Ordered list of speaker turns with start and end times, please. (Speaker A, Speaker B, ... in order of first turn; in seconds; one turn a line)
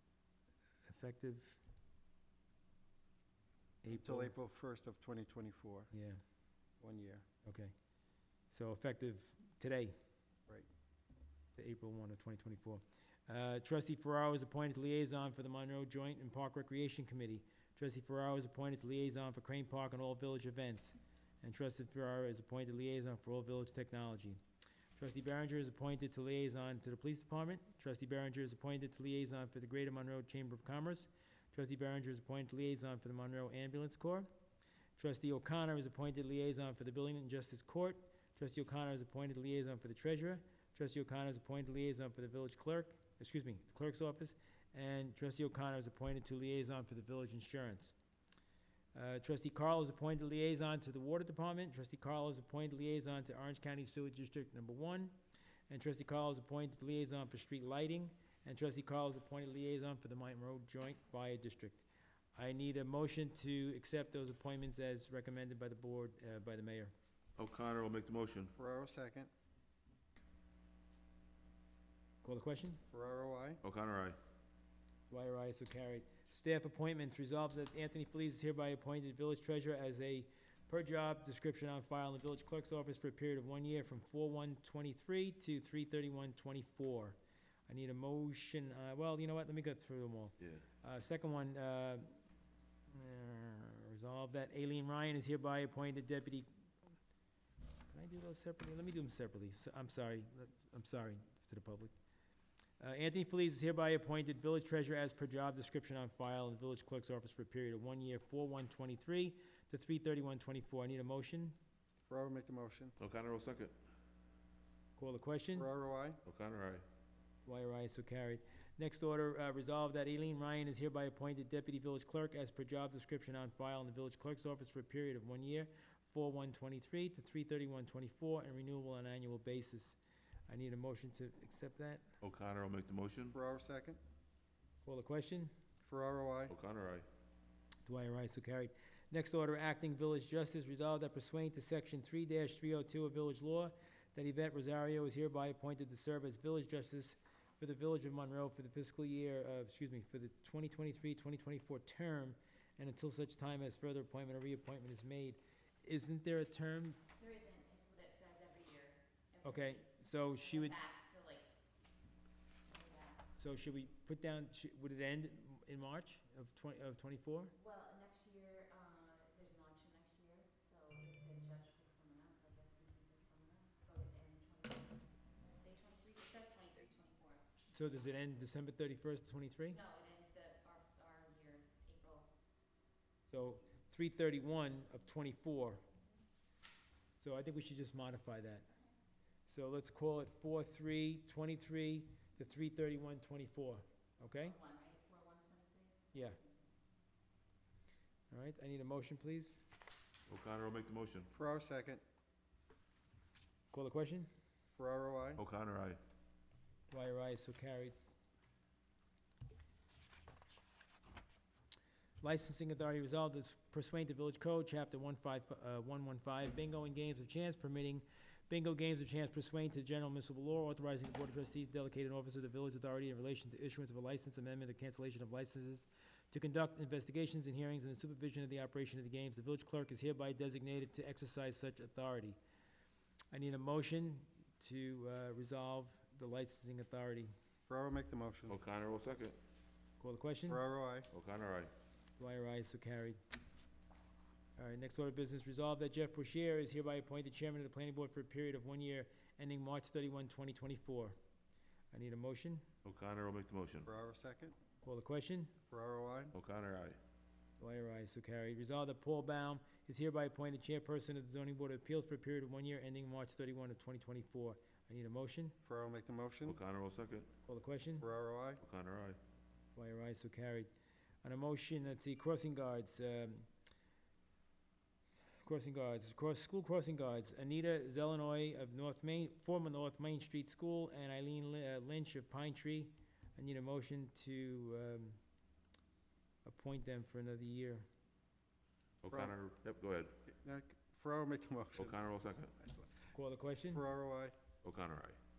Speaker A: 0.8-1.6
Speaker A: 3.8-4.3
Speaker B: 3.9-5.9
Speaker A: 5.9-6.2
Speaker B: 6.8-7.2
Speaker A: 7.4-7.7
Speaker A: 8.5-9.9
Speaker A: 11.6-24.4
Speaker A: 24.9-34.3
Speaker A: 35.0-47.9
Speaker A: 48.9-55.1
Speaker A: 55.7-66.9
Speaker C: 67.4-68.5
Speaker B: 68.5-69.3
Speaker A: 72.2-72.8
Speaker B: 72.9-73.6
Speaker C: 73.6-74.2
Speaker A: 75.1-87.2
Speaker A: 87.7-92.2
Speaker A: 92.9-96.5
Speaker A: 97.9-101.9
Speaker A: 102.8-111.5
Speaker B: 112.1-112.9
Speaker C: 113.0-113.7
Speaker A: 115.0-115.7
Speaker B: 115.5-116.2
Speaker C: 116.2-116.8
Speaker A: 117.4-132.0
Speaker C: 132.2-133.3
Speaker B: 133.3-134.0
Speaker A: 134.8-135.5
Speaker B: 135.8-136.5
Speaker C: 136.5-137.1
Speaker A: 137.8-157.0
Speaker D: 157.2-161.5
Speaker A: 159.4-160.8
Speaker D: 162.7-163.2
Speaker A: 163.4-167.5
Speaker D: 167.5-177.4
Speaker A: 177.7-179.8
Speaker D: 179.7-182.3
Speaker A: 183.3-185.8
Speaker A: 187.2-188.7
Speaker A: 189.5-194.6
Speaker D: 194.4-196.2
Speaker A: 196.1-196.4
Speaker A: 198.3-199.6
Speaker C: 200.3-201.3
Speaker B: 201.3-202.0
Speaker A: 203.7-204.3
Speaker B: 204.8-205.4
Speaker C: 205.4-206.0
Speaker A: 206.9-207.9
Speaker A: 212.2-232.4
Speaker A: 233.3-237.3
Speaker B: 237.7-238.6
Speaker C: 238.5-239.4
Speaker A: 240.0-240.6
Speaker B: 240.5-241.1
Speaker C: 241.1-241.7
Speaker A: 242.2-243.2
Speaker A: 244.6-251.2
Speaker A: 251.9-252.6
Speaker C: 252.8-253.9
Speaker B: 253.8-254.5
Speaker A: 254.8-255.5
Speaker B: 255.7-256.3
Speaker C: 256.3-257.0
Speaker A: 257.6-265.6
Speaker B: 265.6-266.6
Speaker C: 266.4-267.3
Speaker A: 267.4-268.1
Speaker B: 268.0-268.6
Speaker C: 268.6-269.2
Speaker A: 269.8-270.7
Speaker A: 271.2-273.5
Speaker A: 275.4-285.2
Speaker A: 286.4-287.9
Speaker C: 289.0-290.2
Speaker B: 290.2-291.9
Speaker C: 291.8-292.6
Speaker A: 293.1-293.8
Speaker B: 293.7-294.3
Speaker C: 294.6-295.2